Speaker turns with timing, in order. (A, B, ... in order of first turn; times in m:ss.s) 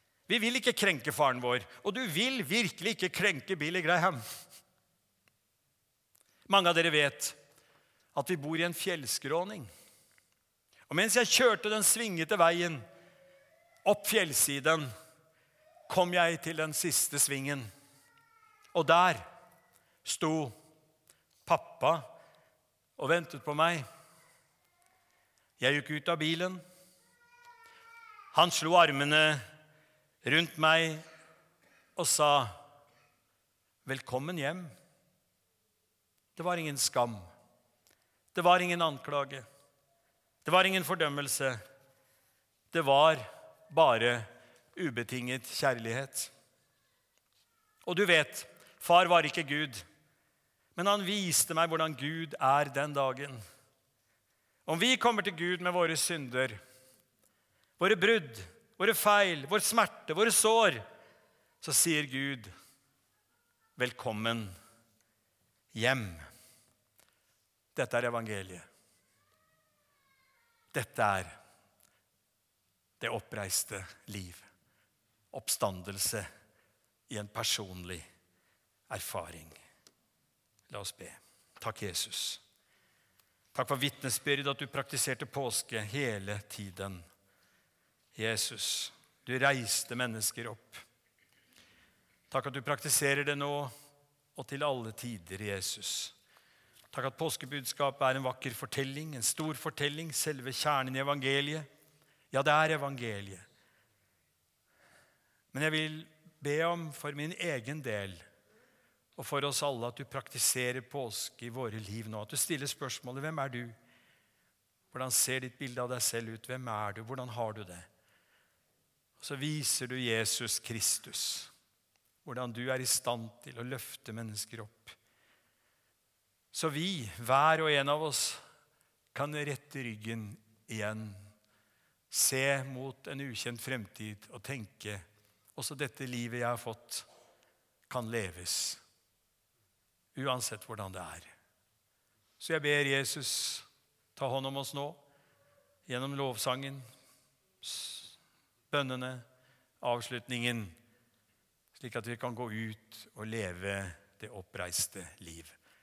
0:00.3-0:04.2 A
0:06.5-0:07.4 A
0:08.1-0:09.7 A
0:10.9-0:12.8 A
0:13.8-0:14.9 A
0:15.9-0:17.7 A
0:18.7-0:19.2 A
0:20.0-0:20.5 A
0:21.4-0:22.1 A
0:23.0-0:23.8 A
0:25.6-0:26.6 A
0:28.3-0:29.4 A
0:30.2-0:31.0 A
0:32.0-0:32.5 A
0:33.8-0:34.7 A
0:36.4-0:37.3 A
0:38.3-0:39.4 A
0:40.4-0:41.6 A
0:42.7-0:46.3 A
0:47.8-0:49.8 A
0:50.8-0:53.4 A
0:54.6-0:56.6 A
0:57.8-1:00.8 A
1:01.6-1:02.5 A
1:03.8-1:04.5 A
1:05.7-1:06.3 A
1:07.7-1:08.6 A
1:10.7-1:11.3 A
1:13.0-1:14.5 A
1:15.3-1:16.2 A
1:17.1-1:18.0 A
1:18.9-1:19.6 A
1:20.7-1:22.4 A
1:23.5-1:27.1 A
1:28.1-1:30.8 A
1:32.3-1:33.7 A
1:34.4-1:36.1 A
1:36.9-1:41.7 A
1:42.3-1:43.4 A
1:45.5-1:48.2 A
1:49.2-1:53.8 A
1:54.9-1:57.9 A
1:59.2-2:01.5 A
2:02.2-2:05.0 A
2:06.5-2:08.4 A
2:09.1-2:11.2 A
2:12.1-2:15.0 A
2:15.6-2:17.0 A
2:17.9-2:18.8 A
2:20.1-2:21.3 A
2:22.4-2:25.0 A
2:25.9-2:26.8 A
2:27.6-2:28.2 A
2:28.7-2:29.2 A
2:29.8-2:30.8 A
2:31.7-2:35.6 A